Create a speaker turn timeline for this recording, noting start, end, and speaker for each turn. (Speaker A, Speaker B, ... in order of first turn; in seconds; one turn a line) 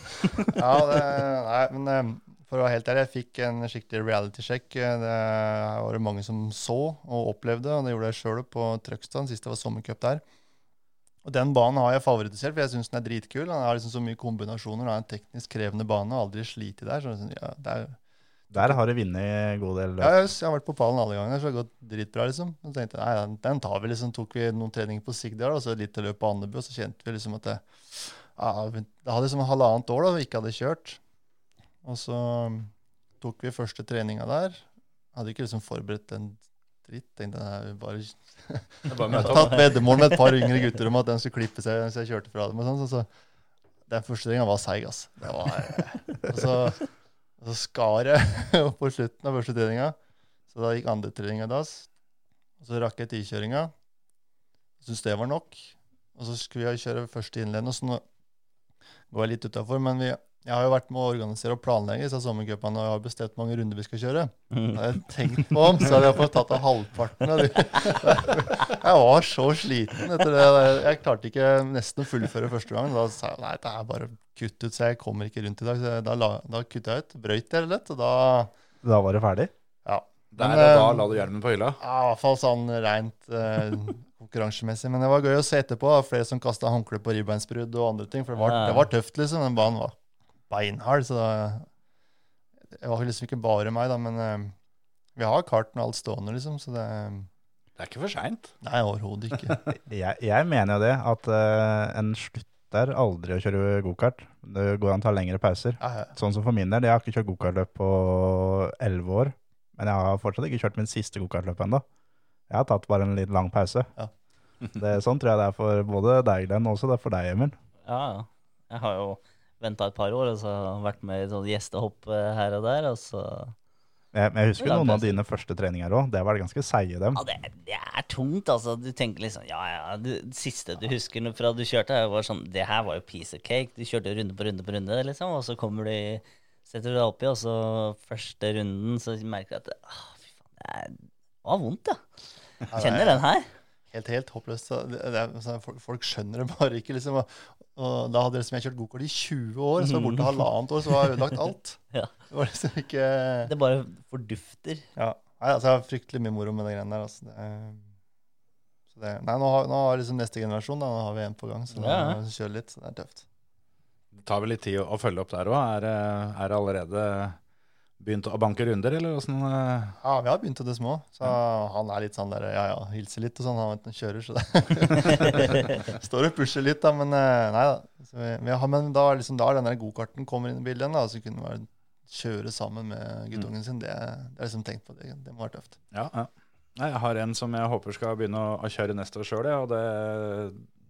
Speaker A: 0.5-10.2
Speaker A: 11.2-18.0
Speaker A: 18.5-18.8
Speaker B: 18.5-20.2
Speaker A: 20.0-31.0
Speaker A: 31.8-43.1
Speaker C: 38.9-39.8
Speaker D: 39.1-40.2
Speaker A: 43.9-50.0
Speaker A: 50.5-51.9
Speaker A: 52.6-53.7
Speaker A: 54.8-58.0
Speaker A: 59.1-78.5
Speaker D: 64.5-64.8
Speaker B: 78.8-79.5
Speaker A: 79.8-81.1
Speaker C: 80.3-81.8
Speaker A: 81.8-89.9
Speaker D: 88.4-88.9
Speaker A: 90.5-91.7
Speaker A: 92.7-94.5
Speaker A: 95.2-97.3
Speaker C: 97.8-98.5
Speaker A: 98.6-99.6
Speaker B: 99.8-111.8
Speaker A: 105.8-106.1
Speaker B: 112.5-113.9
Speaker B: 114.8-117.5
Speaker D: 117.8-123.5
Speaker B: 124.1-127.2
Speaker D: 124.6-125.2
Speaker D: 127.1-142.0
Speaker A: 142.7-143.2
Speaker D: 142.8-143.5
Speaker A: 143.9-153.5
Speaker D: 149.8-150.4
Speaker D: 153.4-154.8
Speaker A: 154.9-157.8
Speaker A: 158.9-163.2
Speaker D: 161.7-162.2
Speaker C: 164.1-167.4
Speaker C: 168.0-170.0
Speaker A: 170.0-185.8
Speaker C: 185.9-190.6